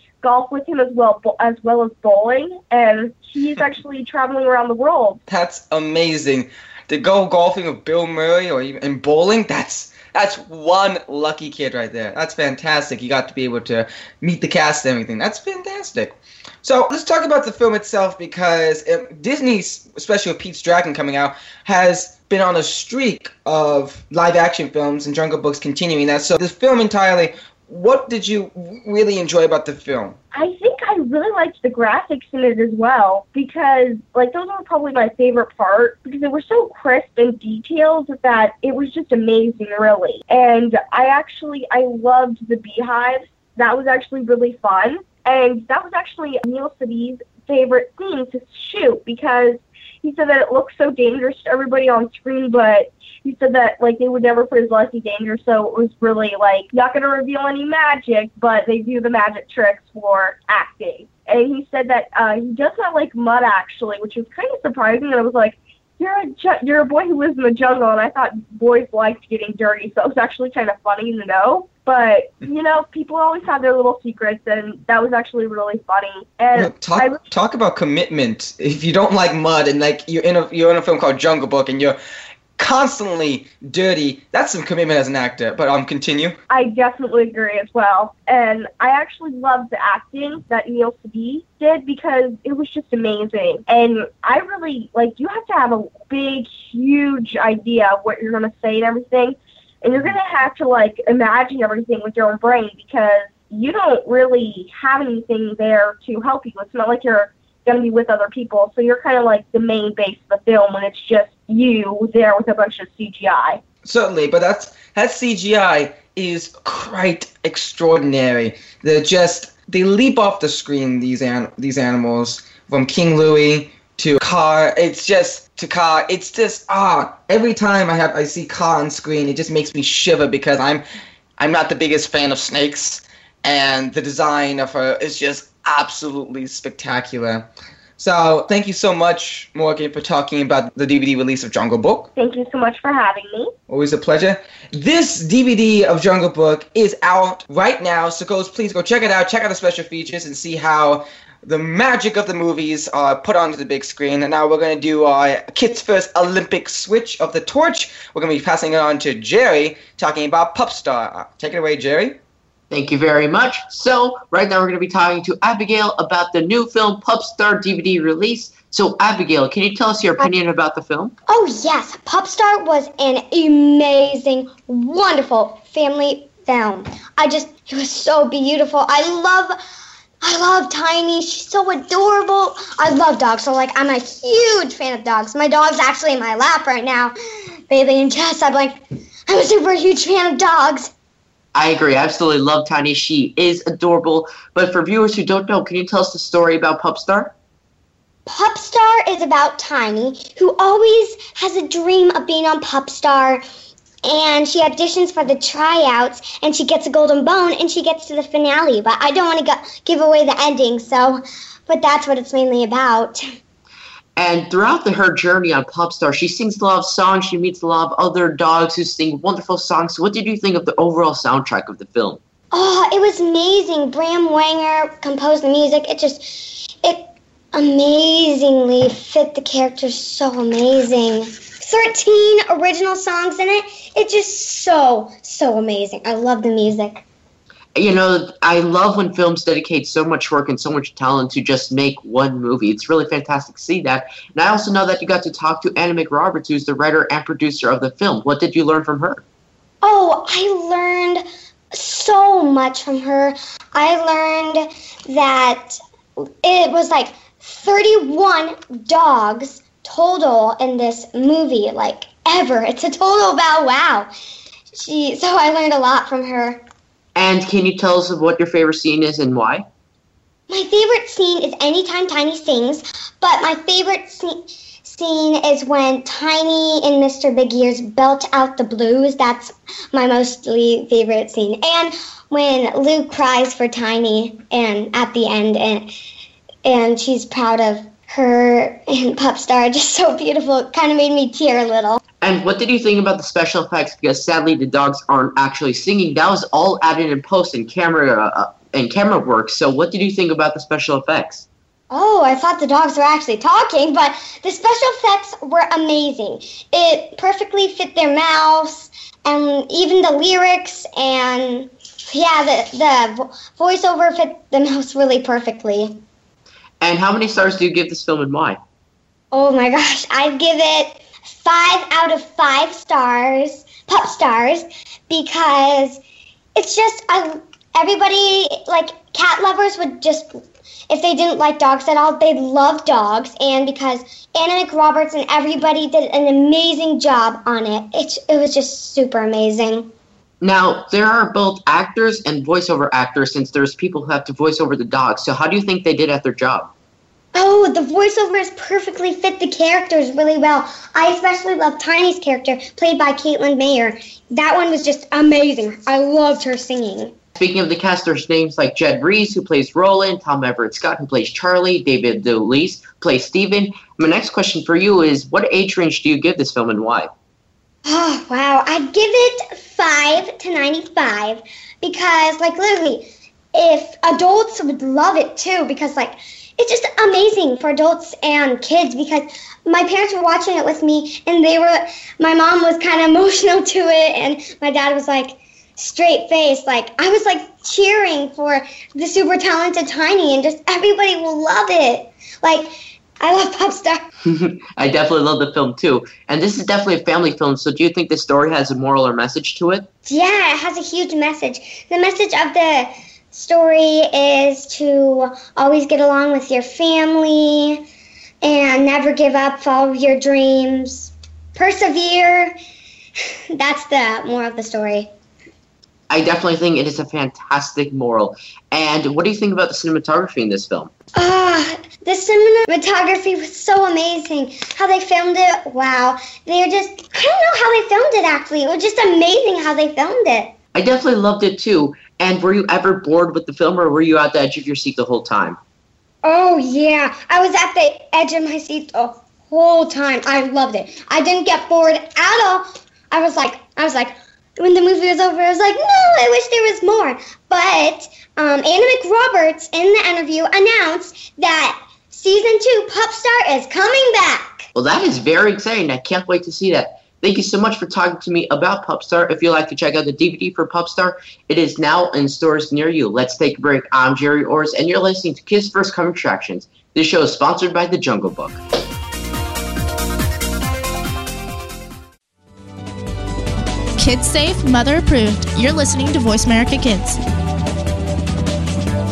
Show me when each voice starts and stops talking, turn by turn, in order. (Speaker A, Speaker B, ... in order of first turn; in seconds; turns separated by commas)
Speaker A: 0.2-5.2, Speaker B: 5.3-30.2, Speaker A: 30.3-77.2, Speaker B: 76.5-82.0, Speaker B: 82.6-86.4, Speaker A: 86.5-113.6, Speaker B: 113.8-130.8, Speaker B: 131.4-137.5, Speaker B: 138.0-142.1, Speaker A: 142.2-143.5, Speaker B: 143.7-162.2, Speaker C: 162.7-171.2, Speaker D: 171.3-179.5, Speaker D: 180.2-187.2, Speaker D: 187.7-190.9, Speaker C: 191.6-197.3, Speaker D: 198.3-203.4, Speaker D: 204.1-213.2, Speaker C: 214.2-222.2, Speaker D: 222.5-237.1, Speaker C: 237.8-249.2, Speaker D: 249.8-264.1, Speaker D: 264.7-266.6, Speaker C: 267.1-269.6, Speaker D: 270.5-285.9, Speaker D: 286.6-292.0, Speaker C: 292.2-301.5, Speaker D: 301.9-316.0, Speaker C: 316.8-318.6, Speaker D: 319.3-326.0, Speaker D: 326.6-339.9, Speaker C: 340.4-346.7, Speaker D: 347.3-357.1, Speaker C: 357.4-367.1, Speaker D: 367.9-394.0, Speaker C: 394.3-399.9, Speaker D: 400.1-407.8, Speaker D: 408.4-412.6, Speaker D: 413.6-415.1, Speaker C: 416.1-420.9, Speaker D: 421.1-430.5, Speaker C: 430.7-435.6, Speaker D: 436.2-454.7, Speaker C: 454.7-468.6, Speaker E: 474.0-477.2